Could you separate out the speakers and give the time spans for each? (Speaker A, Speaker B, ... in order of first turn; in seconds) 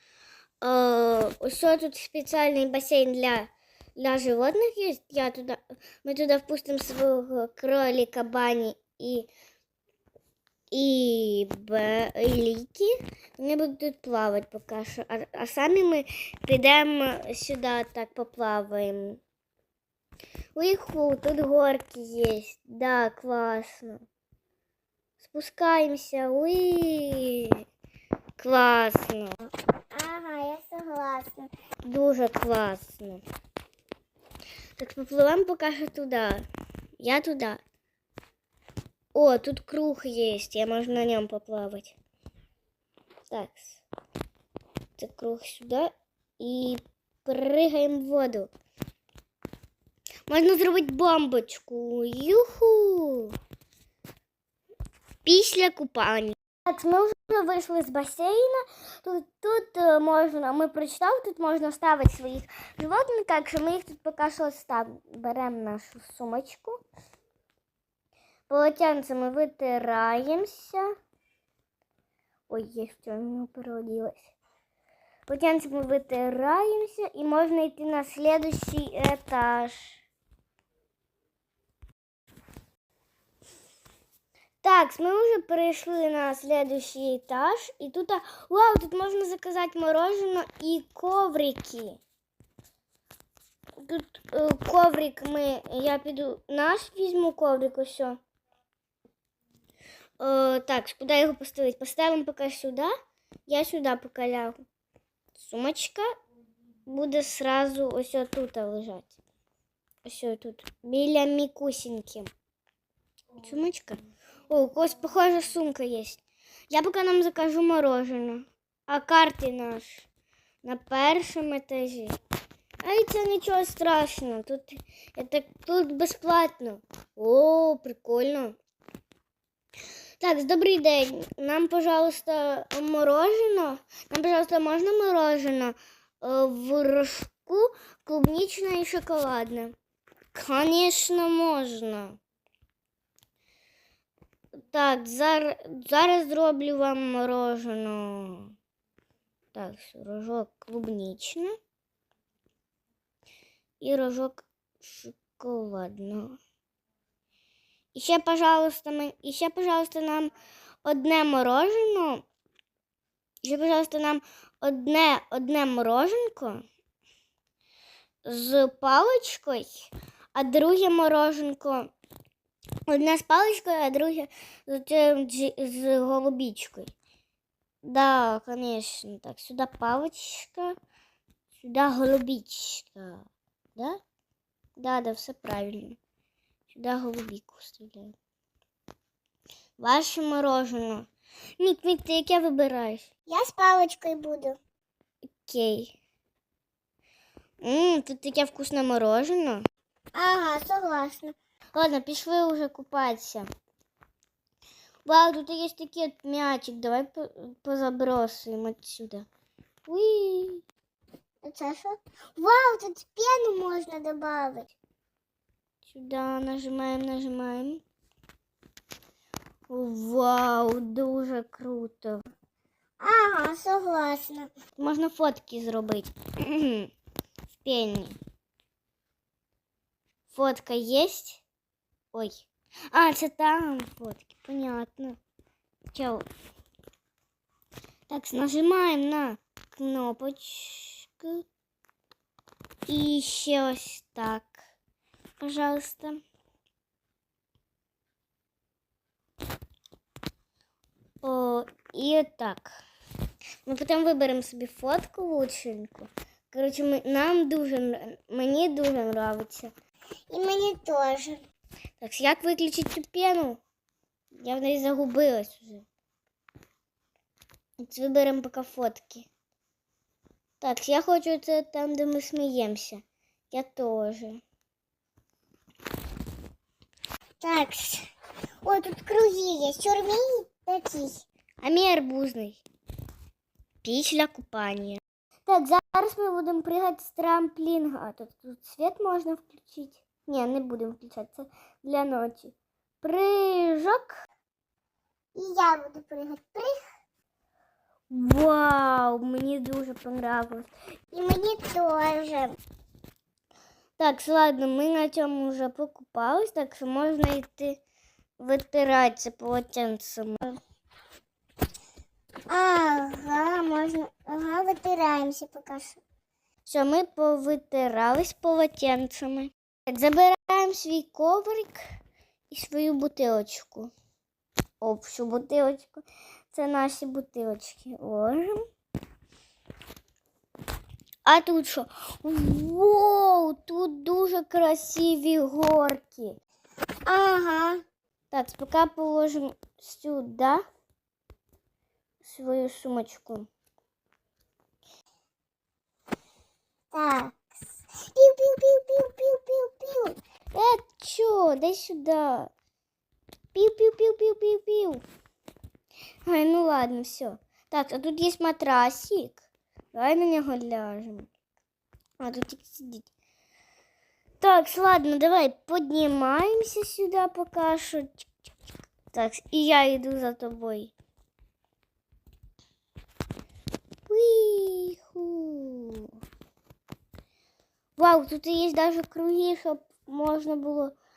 Speaker A: 0.6-9.3, 10.7-19.2, 20.5-24.0, 25.2-27.6, 28.4-29.4, 31.8-33.2, 34.8-36.5, 37.0-37.6, 39.1-42.0, 43.3-43.8, 45.0-48.5, 50.3-53.3, 55.2-66.8, 68.5-70.9, 72.5-74.3, 75.3-80.0, 84.6-92.0, 93.8-98.2, 100.2-102.9, 103.5-104.6, 105.3-106.1, 106.9-109.2, 110.0-112.3, 113.4-120.1, 120.6-122.2, 122.8-128.6, 130.2-139.7, 140.3-142.2, 144.7-148.5, 149.5-151.6, 153.8-156.4, 157.9-160.3, 160.8-162.2, 163.4-166.6, 168.2-171.9, 172.9-176.9, 177.8-180.8, 181.6-184.0, 184.8-186.0, 186.7-188.2, 189.8-193.1, 195.3-195.9, 197.6-199.6, 201.7-203.5, 205.0-209.3, 209.8-210.6, 215.8-217.8, 219.7-222.2, 224.8-226.9, 227.5-228.2, 230.3-231.4, 232.1-235.2, 235.9-236.2, 238.1-241.4, 242.9-244.6, 245.4-246.2, 251.2-252.7, 253.6-259.7, 262.0-263.6, 264.3-265.9, 267.8-269.3, 270.6-274.4, 281.6-282.6, 283.8-294.1, 298.1-300.7, 304.0-307.8, 308.4-310.6, 316.6-321.8, 322.5-323.9, 324.8-328.6, 331.2-336.4, 338.3-340.6, 342.2-343.5, 350.5-352.5, 353.5-355.0, 356.2-361.3, 362.2-363.1, 364.4-368.3, 369.1-370.9, 374.1-376.1, 378.0-380.9
Speaker B: 29.9-31.5, 193.3-194.6, 200.1-201.3, 211.4-214.7, 223.0-224.5, 260.3-261.4, 277.4-278.1, 278.6-281.2, 295.3-296.8, 301.1-302.6, 312.5-316.0, 337.1-337.8, 346.9-350.1